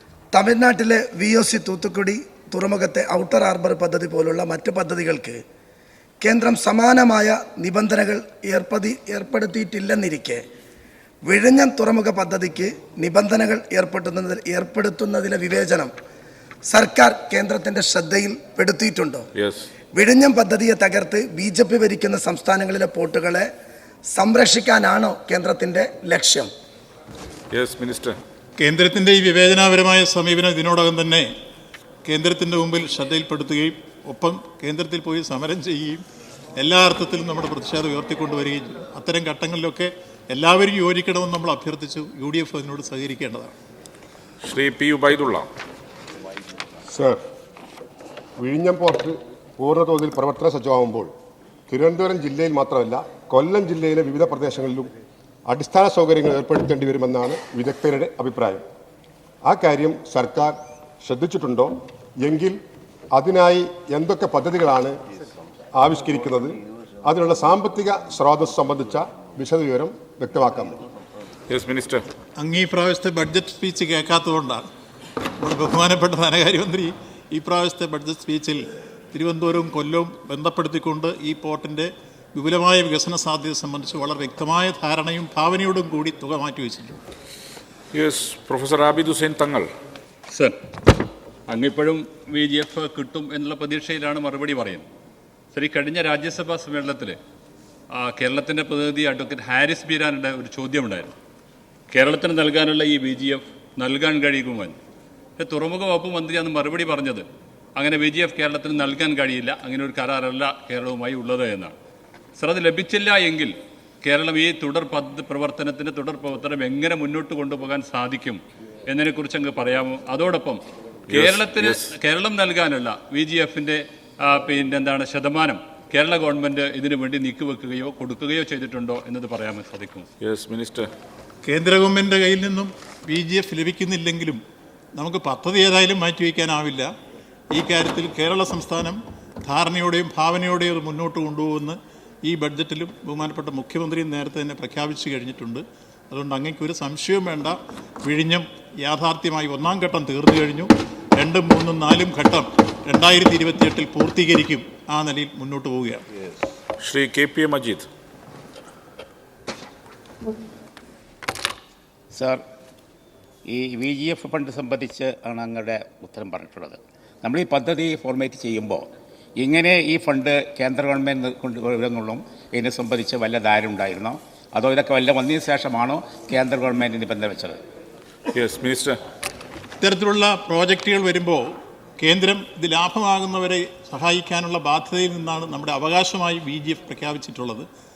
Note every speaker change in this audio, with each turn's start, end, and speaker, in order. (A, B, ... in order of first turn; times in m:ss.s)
0:00.3-0:05.4 A
0:06.2-0:10.4 A
0:11.2-0:15.9 A
0:16.7-0:19.3 A
0:19.4-0:19.7 B
0:19.9-0:23.5 A
0:24.1-0:26.5 A
0:27.5-0:28.2 B
0:28.6-0:31.3 C
0:32.0-0:36.0 C
0:36.6-0:43.6 C
0:44.4-0:45.5 B
0:46.9-0:47.2 D
0:48.4-0:51.1 D
0:51.7-0:54.9 D
0:55.5-0:58.6 D
0:59.4-1:02.6 D
1:03.1-1:04.9 D
1:05.8-1:10.8 D
1:11.5-1:12.0 B
1:12.4-1:14.7 C
1:15.4-1:27.0 C
1:27.9-1:29.7 B
1:30.3-1:30.6 E
1:31.5-1:34.9 E
1:35.5-1:37.2 E
1:37.9-1:41.1 E
1:41.9-1:44.8 E
1:45.4-1:47.2 E
1:47.8-1:51.8 E
1:52.4-2:10.0 E
2:01.1-2:01.9 B
2:10.2-2:10.9 B
2:11.4-2:14.4 C
2:15.0-2:16.9 C
2:17.5-2:36.0 C
2:36.8-2:37.9 B
2:42.1-2:42.4 F
2:43.5-2:48.9 F
2:49.4-2:57.6 F
2:58.3-2:59.0 B
2:59.8-3:07.7 C